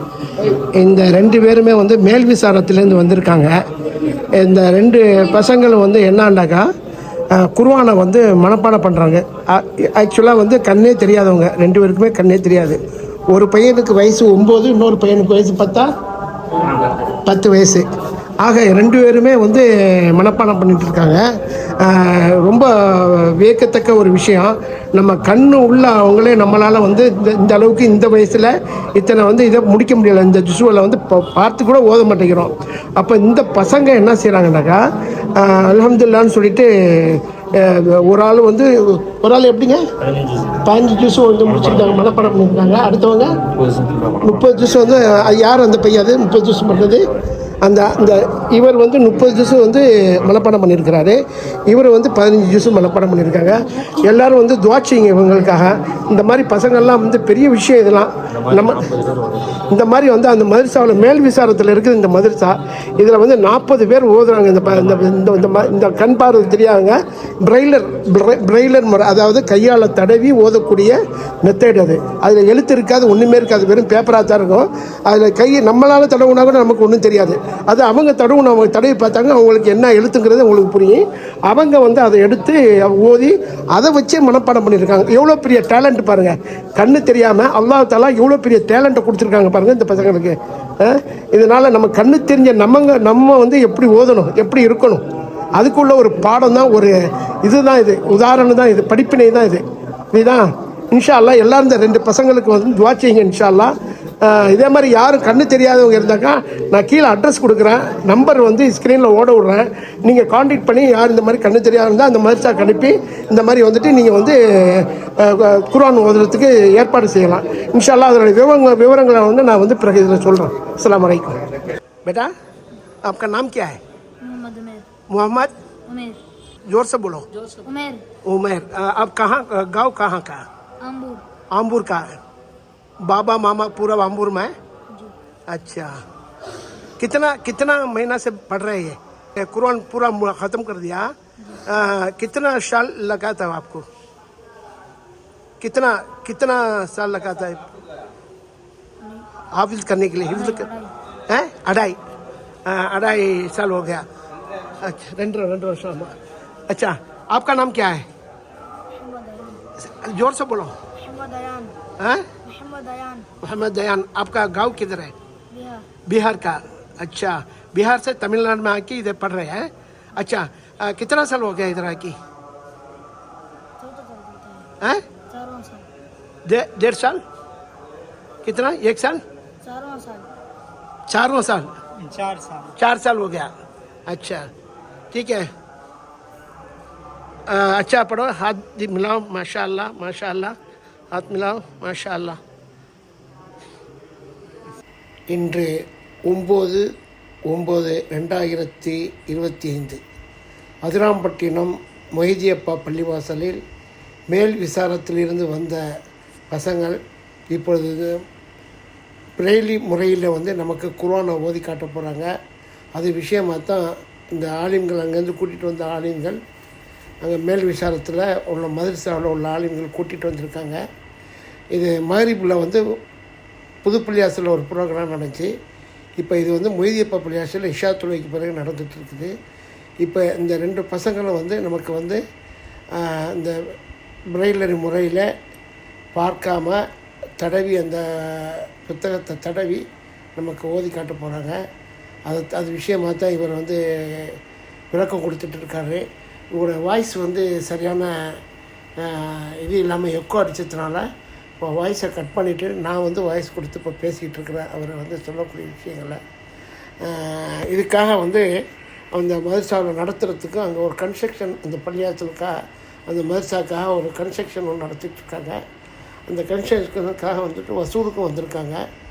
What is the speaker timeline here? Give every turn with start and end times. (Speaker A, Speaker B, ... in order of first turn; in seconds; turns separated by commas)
Speaker A: 0.4-3.5, Speaker A: 4.4-6.7, Speaker A: 7.3-12.8, Speaker A: 13.3-15.9, Speaker A: 17.2-17.9, Speaker A: 18.4-21.2, Speaker A: 21.8-34.8, Speaker A: 35.4-39.8, Speaker A: 40.6-47.1, Speaker A: 47.6-59.0, Speaker A: 59.5-95.0, Speaker A: 95.6-121.4, Speaker A: 122.0-122.3, Speaker A: 123.0-123.8, Speaker B: 124.2-124.8, Speaker A: 125.1-125.5, Speaker B: 125.9-126.2, Speaker A: 126.7-127.3, Speaker B: 127.5-128.0, Speaker A: 128.2-130.4, Speaker B: 130.8-131.2, Speaker A: 131.6-132.1, Speaker A: 133.1-134.5, Speaker A: 135.5-135.9, Speaker A: 137.0-143.8, Speaker A: 145.6-147.7, Speaker A: 149.5-150.7, Speaker B: 150.4-150.9, Speaker A: 151.3-152.0, Speaker A: 152.7-154.1, Speaker A: 154.8-156.2, Speaker A: 156.7-158.1, Speaker B: 159.0-159.6, Speaker A: 159.8-160.8, Speaker B: 161.0-161.8, Speaker A: 162.0-162.3, Speaker B: 162.4-163.3, Speaker A: 163.4-165.1, Speaker B: 165.5-165.9, Speaker A: 166.1-172.2, Speaker B: 173.8-174.7, Speaker B: 175.3-175.9, Speaker A: 176.5-177.2, Speaker A: 178.4-179.2, Speaker B: 179.6-180.3, Speaker A: 181.1-181.7, Speaker A: 182.6-183.5, Speaker A: 184.1-184.5, Speaker A: 185.1-185.5, Speaker A: 187.5-190.6, Speaker A: 191.1-192.4, Speaker A: 195.3-195.7, Speaker A: 196.3-196.8, Speaker A: 197.5-200.0, Speaker A: 200.8-203.6, Speaker A: 204.3-205.8, Speaker A: 206.5-207.0, Speaker A: 207.5-208.2, Speaker A: 209.4-212.3, Speaker A: 212.9-216.4, Speaker A: 217.2-220.8, Speaker A: 221.7-222.8, Speaker A: 223.8-225.5, Speaker A: 226.2-229.3, Speaker A: 230.0-232.2, Speaker A: 233.0-233.6, Speaker A: 234.3-235.3, Speaker A: 236.1-236.8, Speaker A: 237.4-239.8, Speaker A: 240.4-241.6, Speaker A: 242.3-244.4, Speaker A: 244.9-248.4, Speaker A: 249.0-251.1, Speaker A: 251.6-256.2, Speaker A: 257.0-258.5, Speaker A: 259.1-262.6, Speaker A: 263.1-265.6, Speaker A: 266.3-268.8